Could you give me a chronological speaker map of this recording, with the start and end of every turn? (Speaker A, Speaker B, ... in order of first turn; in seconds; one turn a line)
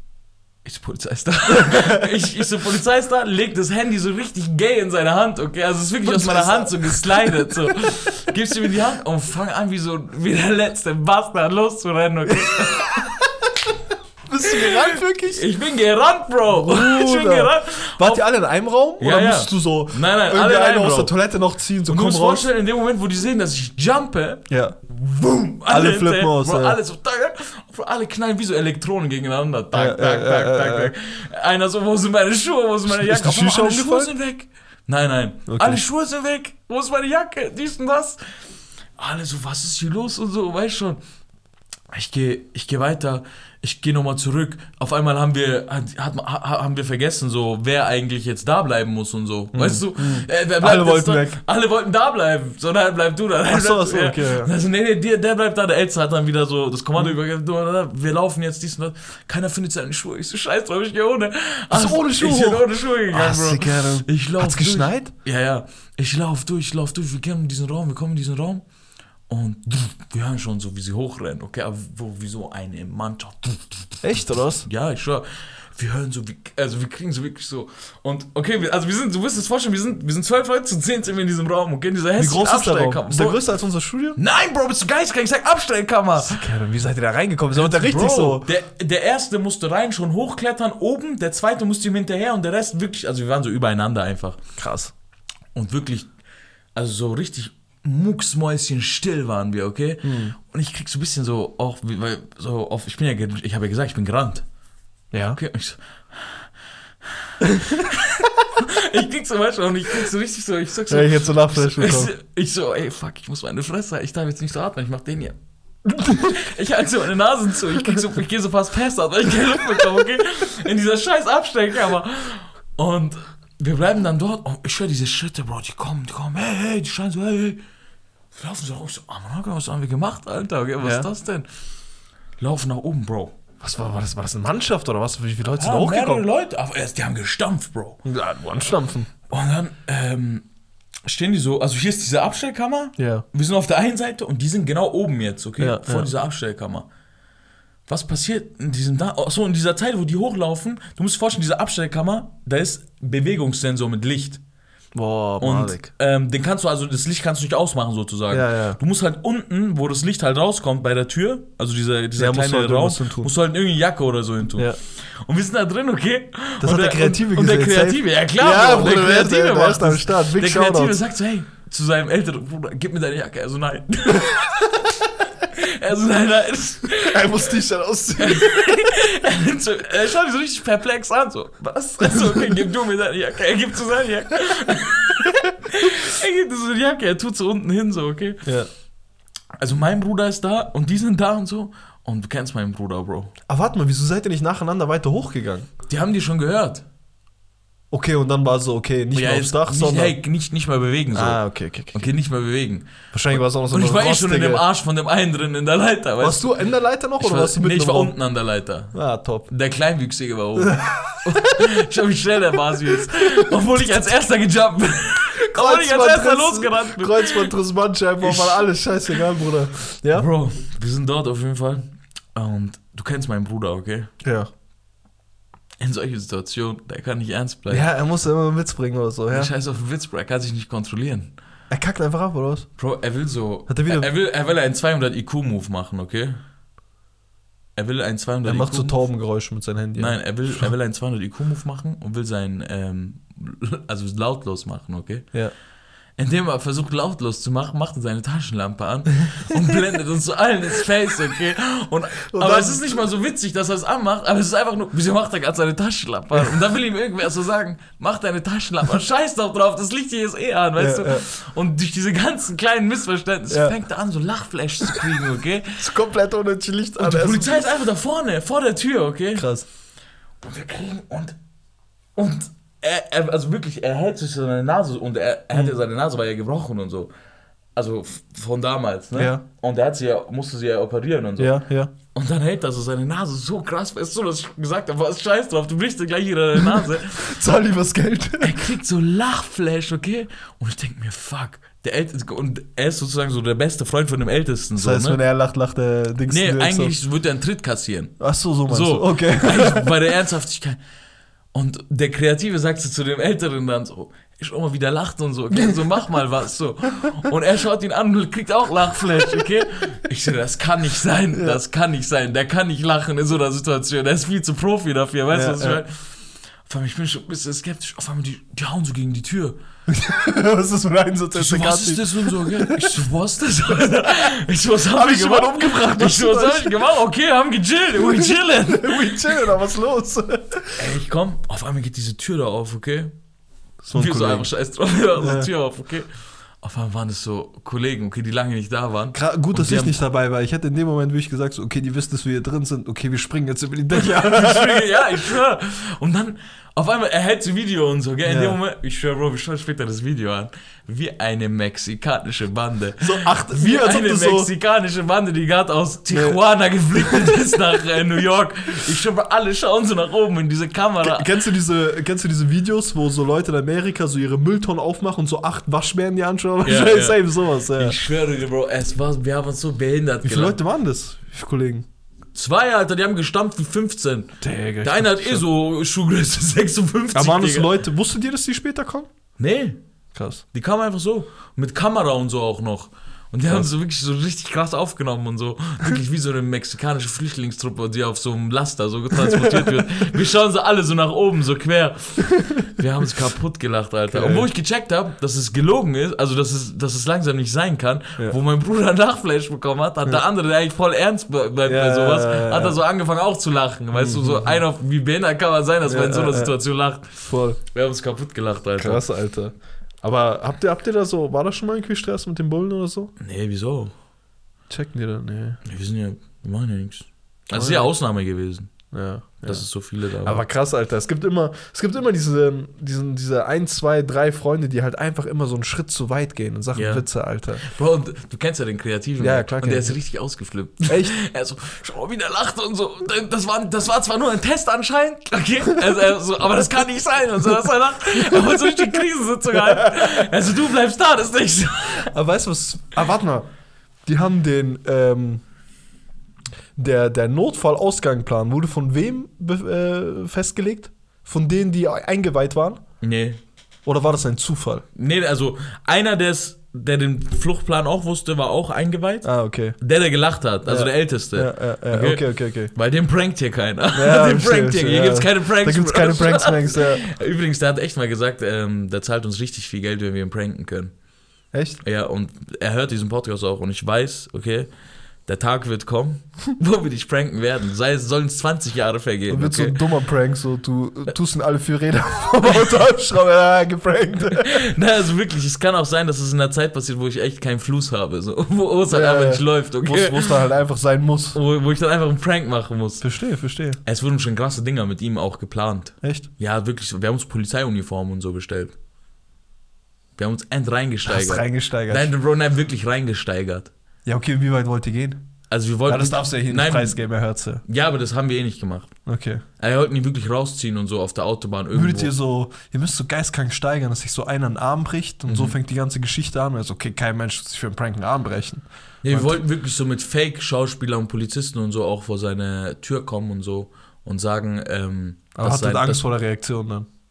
Speaker A: 0.6-13.1
Speaker B: 6.0-8.0
Speaker B: 12.4-13.5
Speaker B: 14.3-15.5
Speaker A: 14.5-18.2
Speaker B: 16.5-22.4
Speaker A: 19.0-21.2
Speaker A: 21.9-38.2
Speaker B: 24.5-25.0
Speaker B: 25.7-26.8
Speaker B: 29.7-30.9
Speaker B: 32.9-34.1
Speaker B: 35.5-35.8
Speaker A: 39.0-41.0
Speaker A: 41.9-68.7
Speaker B: 49.5-51.4
Speaker B: 53.5-54.5
Speaker B: 61.7-65.1
Speaker A: 69.3-83.5
Speaker B: 74.0-74.7
Speaker B: 82.2-84.2
Speaker A: 84.2-86.4
Speaker B: 86.2-88.5
Speaker A: 87.6-94.4
Speaker B: 94.6-94.9
Speaker A: 95.5-96.1
Speaker A: 96.8-104.5
Speaker B: 100.0-100.3
Speaker B: 105.1-105.4
Speaker A: 105.4-106.5
Speaker A: 107.7-115.4
Speaker B: 110.9-112.1
Speaker B: 115.9-116.3
Speaker A: 116.0-127.6
Speaker A: 128.3-131.5
Speaker B: 130.8-131.1
Speaker A: 132.4-133.3
Speaker B: 133.6-136.2
Speaker A: 135.6-138.0
Speaker B: 138.0-139.1
Speaker A: 139.3-140.5
Speaker A: 141.1-146.9
Speaker B: 143.0-143.2
Speaker B: 145.6-146.1
Speaker A: 147.9-154.4
Speaker B: 154.9-155.9
Speaker A: 155.4-174.9
Speaker B: 158.3-158.8
Speaker B: 162.2-163.3
Speaker B: 166.6-171.0
Speaker A: 175.5-177.5
Speaker B: 177.0-178.9
Speaker A: 178.2-188.5
Speaker A: 189.6-193.3
Speaker B: 193.5-195.7
Speaker A: 195.9-196.8
Speaker B: 197.9-200.2
Speaker A: 199.1-217.5
Speaker B: 201.1-202.1
Speaker B: 203.1-204.6
Speaker B: 206.2-208.2
Speaker B: 208.9-209.5
Speaker B: 210.6-211.2
Speaker B: 213.4-214.0
Speaker B: 215.5-220.3
Speaker A: 218.2-218.7
Speaker A: 220.1-224.1
Speaker B: 224.2-224.5
Speaker A: 225.8-227.9
Speaker B: 227.7-229.5
Speaker A: 229.3-231.3
Speaker B: 231.7-232.8
Speaker A: 232.8-236.4
Speaker B: 233.7-234.1
Speaker A: 237.8-239.0
Speaker B: 238.4-240.7
Speaker A: 240.0-245.6
Speaker A: 246.1-265.8
Speaker B: 252.3-253.1
Speaker B: 260.8-261.2
Speaker B: 263.5-263.8
Speaker B: 265.8-267.7
Speaker A: 267.0-269.7
Speaker B: 269.4-269.7
Speaker A: 270.4-271.4
Speaker A: 272.1-277.1
Speaker A: 277.8-287.3
Speaker B: 279.1-279.4
Speaker B: 281.4-281.9
Speaker B: 286.7-288.6
Speaker A: 288.4-295.2
Speaker B: 294.8-297.0
Speaker A: 296.3-300.8
Speaker B: 298.2-299.9
Speaker A: 301.5-319.6
Speaker B: 311.3-311.6
Speaker B: 315.3-315.8
Speaker B: 319.9-322.9
Speaker A: 321.4-329.2
Speaker B: 324.9-326.8
Speaker B: 328.0-330.8
Speaker A: 330.8-333.1
Speaker B: 333.8-334.5
Speaker A: 333.9-340.0
Speaker B: 335.2-335.5
Speaker B: 339.1-345.0
Speaker A: 344.0-361.3
Speaker B: 348.2-348.6
Speaker B: 353.0-354.5
Speaker B: 356.1-356.4
Speaker B: 356.9-357.4
Speaker B: 361.0-367.9
Speaker A: 366.6-370.6
Speaker B: 370.2-371.9
Speaker A: 372.3-377.7
Speaker B: 374.4-375.4
Speaker B: 377.1-379.1
Speaker A: 379.4-379.8
Speaker B: 380.1-380.4
Speaker A: 380.5-409.1
Speaker B: 389.2-389.7
Speaker B: 394.1-394.5
Speaker B: 401.7-402.8
Speaker B: 403.9-404.6
Speaker B: 405.9-407.6
Speaker B: 408.8-413.1
Speaker A: 413.2-413.9
Speaker B: 414.7-415.6
Speaker A: 415.6-420.4
Speaker B: 417.5-417.9
Speaker B: 418.9-427.6
Speaker A: 426.7-442.1
Speaker B: 429.2-430.0
Speaker B: 430.9-431.2
Speaker B: 438.3-440.2
Speaker B: 442.1-443.5
Speaker B: 444.0-445.4
Speaker B: 446.8-452.9
Speaker A: 453.0-453.4
Speaker B: 453.9-454.9
Speaker A: 454.9-471.0
Speaker B: 459.2-459.8
Speaker B: 460.6-462.7
Speaker B: 463.9-467.1
Speaker B: 471.5-471.8
Speaker A: 471.8-479.8
Speaker B: 479.3-484.7
Speaker A: 484.4-490.4
Speaker B: 488.9-491.4
Speaker A: 491.3-493.1
Speaker B: 493.0-493.8
Speaker A: 493.8-498.8
Speaker B: 496.0-496.3
Speaker A: 500.2-503.7
Speaker B: 501.1-502.1
Speaker B: 504.1-507.6
Speaker A: 505.5-507.1
Speaker A: 507.6-509.0
Speaker B: 509.1-509.4
Speaker A: 509.6-512.1
Speaker B: 511.7-519.4
Speaker A: 515.3-515.6
Speaker A: 519.0-526.0
Speaker B: 525.4-526.9